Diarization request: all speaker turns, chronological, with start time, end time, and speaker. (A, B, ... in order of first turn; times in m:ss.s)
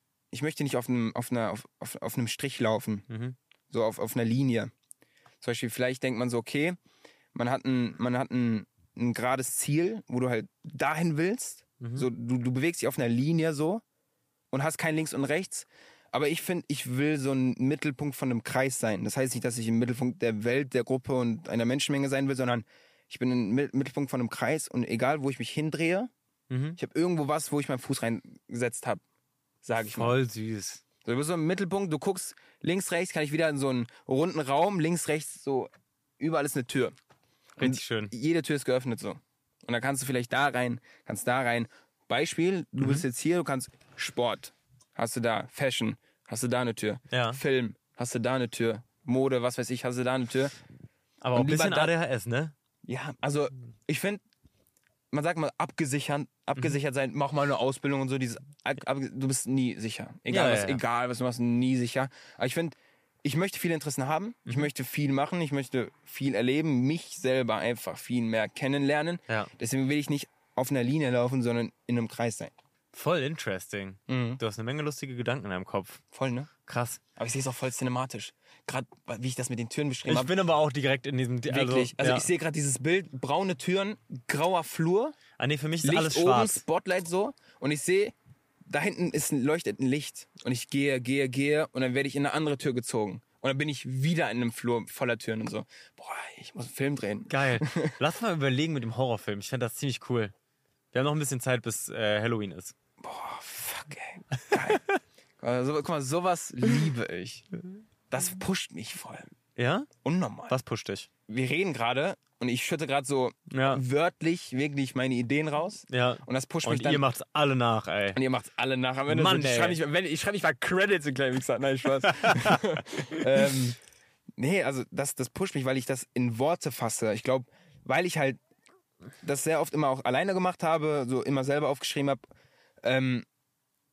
0:00.3-0:03.1 A
0:03.1-0:03.4 B
0:03.7-0:04.7 A
0:05.4-0:06.8 A
0:07.3-0:13.8 A
0:11.8-0:12.1 B
0:14.5-0:26.1 A
0:26.5-0:26.8 B
0:26.8-0:29.0 A
0:29.6-0:30.1 A
0:29.9-0:30.8 B
0:31.0-0:35.7 A
0:36.2-0:36.9 A
0:37.6-0:38.1 B
0:37.6-0:50.6 A
0:42.8-0:43.0 B
0:47.1-0:47.4 B
0:51.2-0:52.5 B
0:51.4-0:51.9 A
0:52.8-0:54.2 A
0:55.1-1:12.5 A
1:00.3-1:00.8 B
1:12.9-1:16.0 B
1:14.1-1:14.4 A
1:16.1-1:16.5 A
1:16.6-1:17.0 B
1:17.2-1:20.3 A
1:20.1-1:22.3 B
1:21.5-1:25.2 A
1:25.4-1:26.6 B
1:25.8-1:28.1 A
1:28.7-1:38.0 A
1:37.3-1:40.3 B
1:40.9-1:42.8 B
1:43.0-1:44.8 A
1:44.3-1:45.0 B
1:45.4-1:47.5 A
1:48.1-1:49.3 A
1:49.6-1:49.9 B
1:50.0-1:50.6 A
1:50.5-1:51.1 B
1:51.3-1:57.0 A
1:53.5-1:53.8 B
1:55.9-1:58.2 B
1:58.2-2:03.8 A
1:59.1-1:59.8 B
2:02.1-2:02.6 B
2:04.4-2:08.4 A
2:09.2-2:12.2 A
2:12.8-2:13.3 A